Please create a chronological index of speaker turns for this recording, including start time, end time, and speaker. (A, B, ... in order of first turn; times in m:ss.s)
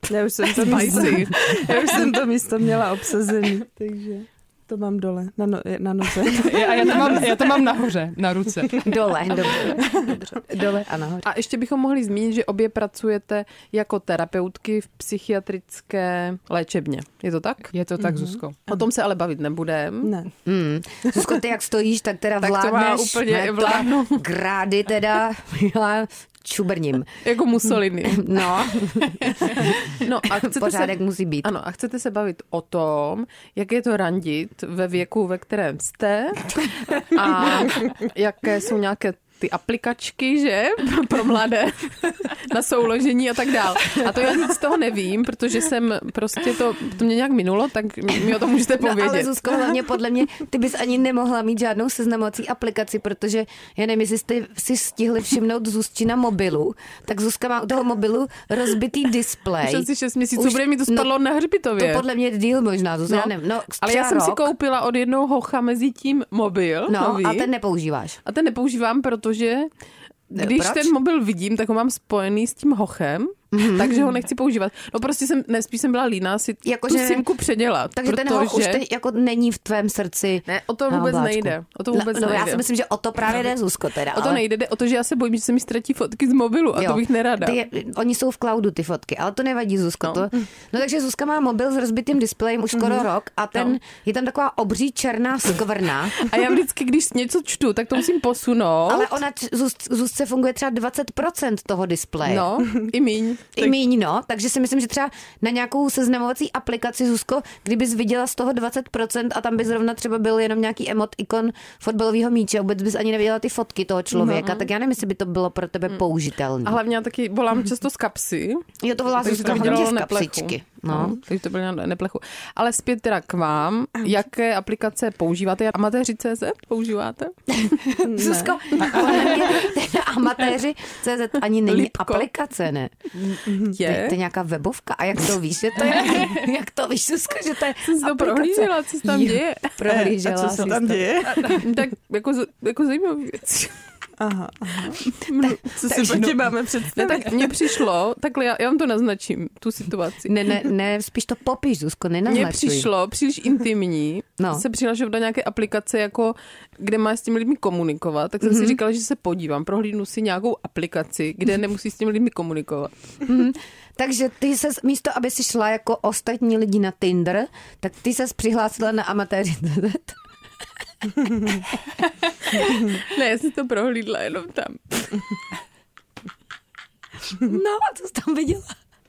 0:00.1-0:07.4 A
0:00.6-0:01.9 B
0:06.3-0:08.9 C
0:08.8-0:09.9 D
0:09.9-0:10.4 B
0:10.5-0:11.3 D
0:11.2-0:17.7 B
0:17.7-0:18.6 C
0:18.0-0:18.4 A
0:18.7-0:20.2 B
0:20.0-0:20.3 A
0:20.4-0:27.2 D
0:22.4-0:24.2 B
0:27.2-0:28.3 B
0:28.1-0:31.5 D
0:29.9-0:49.3 B
0:48.8-1:01.1 D
0:59.6-1:02.0 B
1:01.8-1:04.5 D
1:03.1-1:07.5 B
1:06.9-1:08.2 D
1:08.2-1:09.7 B
1:10.3-1:10.9 D
1:10.4-1:18.8 B
1:13.5-1:13.9 D
1:16.6-1:17.3 D
1:17.9-1:24.4 D
1:20.5-1:22.6 B
1:24.1-1:27.6 B
1:26.8-1:36.2 D
1:36.2-1:39.1 B
1:38.9-1:42.4 D
1:42.2-1:43.5 B
1:43.6-1:56.8 D
1:54.2-1:54.4 A
1:54.3-1:54.7 B
1:56.6-1:58.7 B
1:58.8-2:01.2 D
1:59.2-2:07.8 B
2:07.6-2:12.9 D
2:08.0-2:08.6 A
2:11.7-2:12.3 B
2:13.5-2:13.8 A
2:13.7-2:14.2 B
2:13.7-2:21.1 D
2:17.9-2:19.7 B
2:19.9-2:21.6 A
2:21.6-2:23.8 B
2:24.2-2:27.5 A
2:25.3-2:25.6 B
2:25.9-2:26.2 D
2:26.1-2:26.5 C
2:27.0-2:30.3 B
2:30.3-2:32.9 D
2:32.3-2:42.9 B
2:34.4-2:34.6 D
2:38.4-2:38.8 D
2:43.2-2:50.2 D
2:51.3-2:51.6 D
2:52.6-2:55.3 B
2:57.4-2:58.8 D